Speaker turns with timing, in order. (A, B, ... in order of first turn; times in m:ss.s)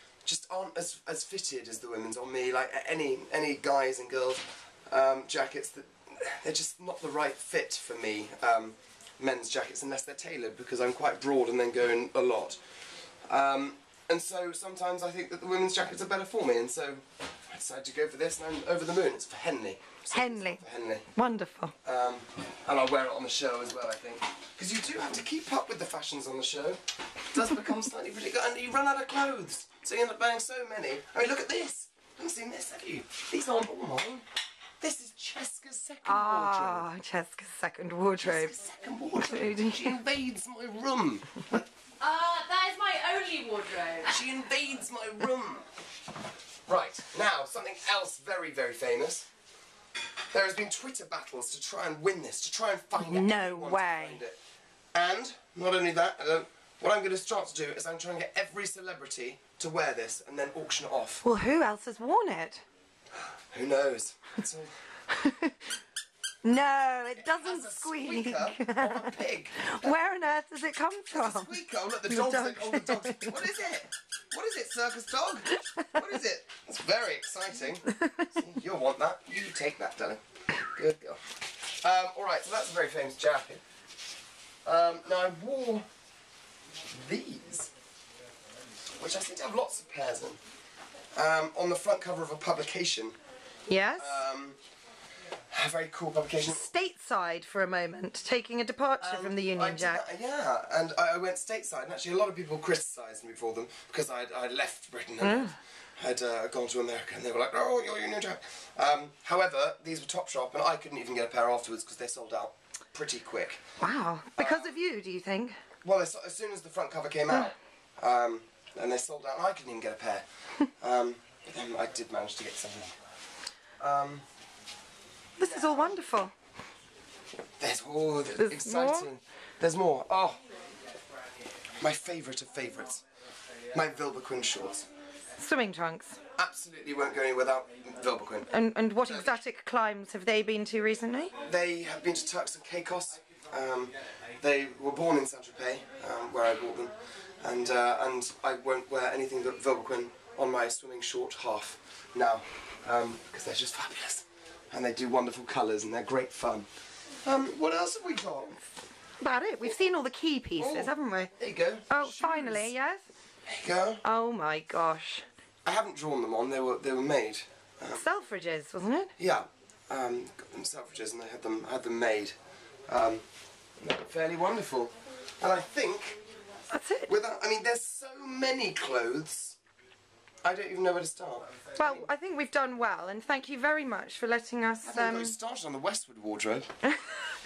0:00.2-0:12.6 A
0:13.3-0:21.1 A
0:20.1-0:20.6 B
0:21.1-0:21.7 B
0:21.8-0:26.8 A
0:27.3-0:34.2 A
0:34.8-0:36.9 A
0:36.0-0:38.6 B
0:38.2-0:41.6 A
0:39.1-0:40.0 B
0:42.0-0:44.0 C
0:44.0-0:45.6 A
0:46.7-0:49.3 A
0:50.3-0:54.4 A
0:53.0-0:54.2 B
0:54.9-1:01.2 A
1:01.2-1:02.6 B
1:03.5-1:04.7 A
1:05.2-1:05.5 B
1:06.4-1:13.5 B
1:07.2-1:10.2 A
1:11.1-1:20.2 A
1:20.7-1:21.2 A
1:21.8-1:23.6 A
1:24.6-1:25.8 A
1:26.9-1:27.7 A
1:29.0-1:30.4 A
1:31.1-1:33.2 A
1:33.7-1:34.2 B
1:34.0-1:34.6 A
1:35.5-1:36.7 A
1:36.4-1:40.0 B
1:39.0-1:53.6 A
1:45.2-1:45.5 B
1:53.8-1:55.6 B
1:54.4-1:54.8 A
1:55.8-2:00.2 A
2:00.8-2:03.0 A
2:03.8-2:04.2 A
2:05.4-2:06.3 B
2:07.6-2:10.4 A
2:08.4-2:09.1 B
2:11.8-2:13.0 A
2:13.7-2:14.9 A
2:15.4-2:16.2 B
2:16.4-2:18.5 A
2:18.5-2:21.3 B
2:19.0-2:19.4 A
2:21.4-2:36.7 A
2:37.2-2:38.6 A
2:39.2-2:41.3 B
2:40.6-2:42.7 A
2:41.9-2:43.0 B
2:43.5-2:44.0 A
2:44.0-2:45.2 B
2:45.6-2:48.0 A
2:47.9-2:49.1 B
2:49.2-2:52.3 A
2:52.9-2:53.2 A
2:53.8-2:56.2 A
2:56.7-2:57.1 B
2:57.1-2:59.6 A
3:00.4-3:02.0 A
3:01.8-3:05.4 B
3:04.8-3:06.7 A
3:06.9-3:07.1 B